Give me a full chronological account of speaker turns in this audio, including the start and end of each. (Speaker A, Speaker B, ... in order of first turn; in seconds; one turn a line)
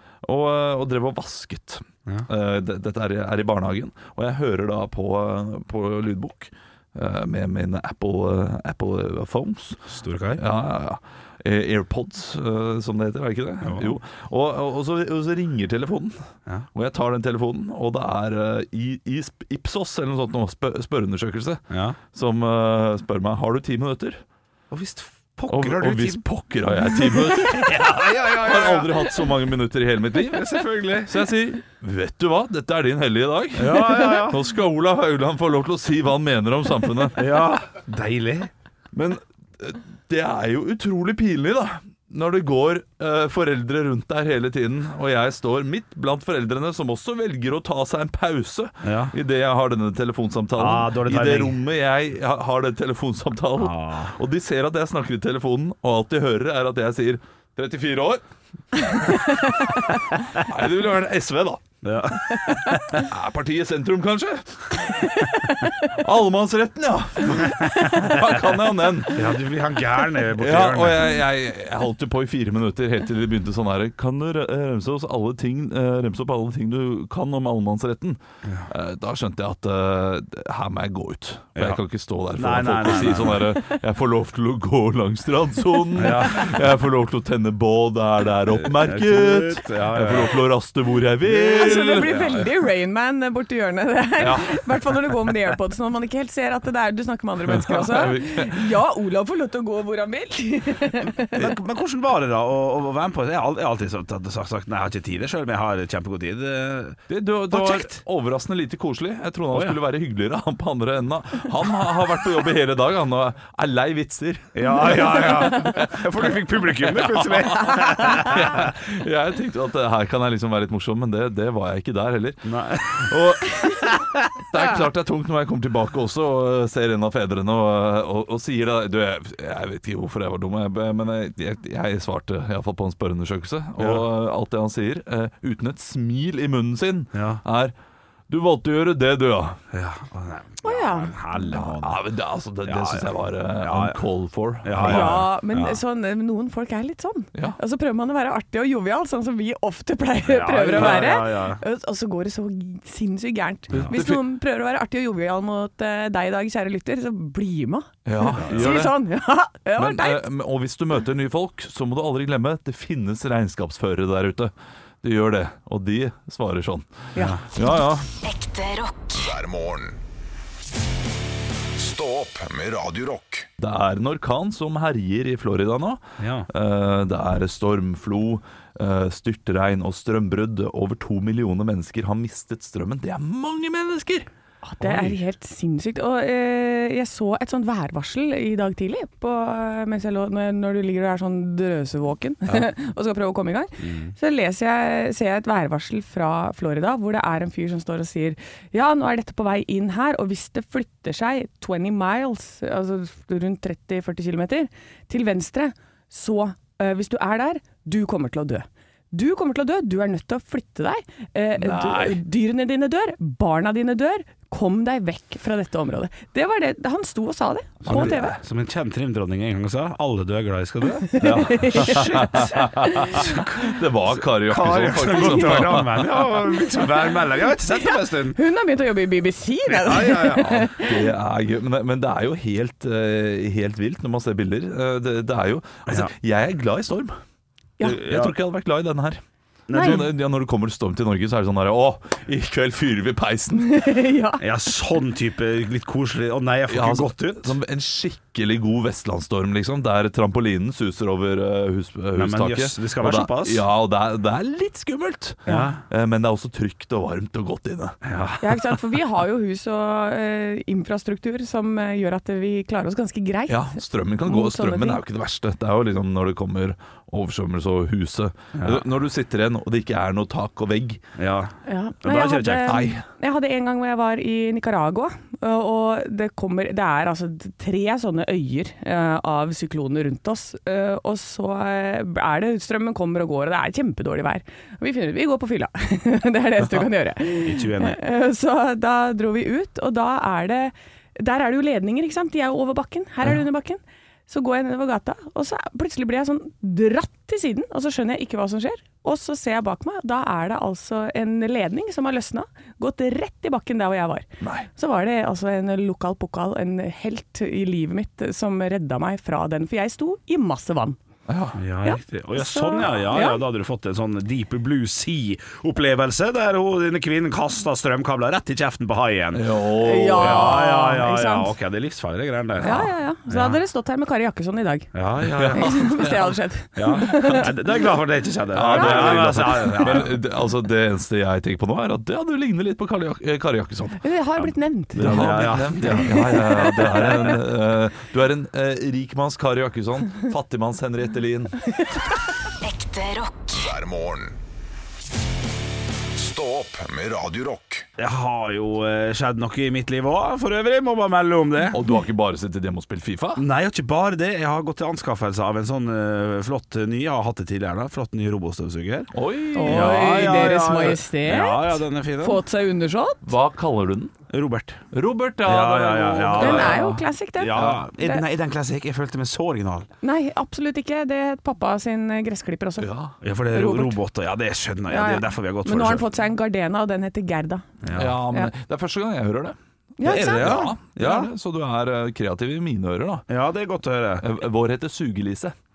Speaker A: 0.2-16.2
Speaker B: 9.9-10.4
Speaker B: 13.6-14.0
Speaker A: 16.7-24.2
Speaker B: 21.7-22.0
Speaker B: 24.7-26.2
Speaker A: 25.5-37.4
Speaker B: 27.3-29.1
Speaker B: 30.3-31.1
Speaker B: 33.5-34.4
Speaker B: 37.1-38.5
Speaker A: 38.9-58.2
Speaker B: 48.8-49.1
Speaker B: 50.5-51.6
Speaker B: 53.6-54.1
Speaker A: 58.8-61.6
Speaker C: 59.1-59.7
Speaker B: 61.8-63.0
Speaker A: 62.9-69.3
Speaker C: 65.2-65.8
Speaker B: 69.1-71.1
Speaker A: 70.3-92.4
Speaker B: 81.5-81.8
Speaker B: 82.3-83.5
Speaker B: 86.0-86.6
Speaker B: 88.5-90.4
Speaker B: 91.2-92.5
Speaker C: 91.5-101.4
Speaker A: 94.2-94.7
Speaker A: 97.5-98.8
Speaker B: 101.3-108.0
Speaker A: 107.1-137.7
Speaker B: 109.5-109.8
Speaker B: 114.5-118.7
Speaker B: 122.4-123.7
Speaker B: 133.8-134.0
Speaker B: 137.1-137.4
Speaker A: 138.3-139.6
Speaker B: 139.7-142.0
Speaker C: 140.6-141.1
Speaker A: 141.5-145.3
Speaker B: 142.6-144.0
Speaker B: 144.6-145.8
Speaker C: 144.8-160.2
Speaker B: 150.2-151.6
Speaker A: 153.7-154.2
Speaker A: 158.1-159.0
Speaker B: 158.4-158.8
Speaker A: 159.8-168.0
Speaker C: 167.1-167.4
Speaker B: 167.1-167.4
Speaker D: 168.2-169.2
Speaker E: 169.1-170.0
Speaker E: 171.8-173.5
Speaker A: 173.6-184.3
Speaker B: 176.2-176.5
Speaker C: 184.6-218.4
Speaker A: 184.8-185.1
Speaker B: 193.8-194.1
Speaker A: 211.6-212.2
Speaker B: 217.8-228.4
Speaker A: 217.8-218.4
Speaker C: 221.1-223.4
Speaker A: 221.2-226.3
Speaker C: 227.7-231.0
Speaker B: 229.7-230.6
Speaker A: 230.4-237.2
Speaker B: 237.8-238.3
Speaker A: 238.0-239.2
Speaker B: 239.7-240.1
Speaker A: 239.7-243.8
Speaker C: 239.7-240.0
Speaker C: 243.7-244.4
Speaker B: 244.4-247.5
Speaker A: 246.7-258.0
Speaker B: 252.1-253.6
Speaker B: 255.5-255.8
Speaker B: 258.0-258.7
Speaker C: 258.4-265.0
Speaker A: 263.5-271.0
Speaker B: 268.6-268.8
Speaker B: 271.2-272.9
Speaker C: 271.6-311.0
Speaker A: 272.7-273.0
Speaker B: 287.4-288.0
Speaker A: 304.4-304.7
Speaker A: 311.3-311.6
Speaker B: 311.5-319.5
Speaker C: 311.8-313.4
Speaker A: 319.3-320.6
Speaker C: 319.8-321.5
Speaker B: 320.1-323.6
Speaker C: 322.6-324.9
Speaker B: 324.9-326.1
Speaker A: 325.3-326.4
Speaker C: 325.5-327.6
Speaker B: 326.8-330.2
Speaker A: 328.5-334.0
Speaker C: 328.7-329.3
Speaker C: 334.0-335.3
Speaker A: 334.9-341.7
Speaker B: 334.9-336.4
Speaker C: 335.9-337.3
Speaker D: 342.6-343.6
Speaker E: 343.5-344.4
Speaker E: 346.1-347.9
Speaker B: 348.0-351.8
Speaker A: 351.7-353.4
Speaker B: 353.4-359.1
Speaker A: 359.1-360.4
Speaker C: 359.5-363.3
Speaker B: 359.6-362.4
Speaker A: 363.2-364.1
Speaker B: 364.3-364.8
Speaker A: 364.9-367.0
Speaker B: 365.4-369.9
Speaker C: 366.4-368.2
Speaker C: 370.0-372.9
Speaker A: 372.8-373.1
Speaker B: 373.2-376.1
Speaker C: 373.5-373.9
Speaker C: 374.9-377.6
Speaker B: 377.8-378.2
Speaker A: 377.9-383.2
Speaker C: 380.0-380.7
Speaker B: 380.0-381.3
Speaker B: 383.3-384.2
Speaker A: 384.2-385.5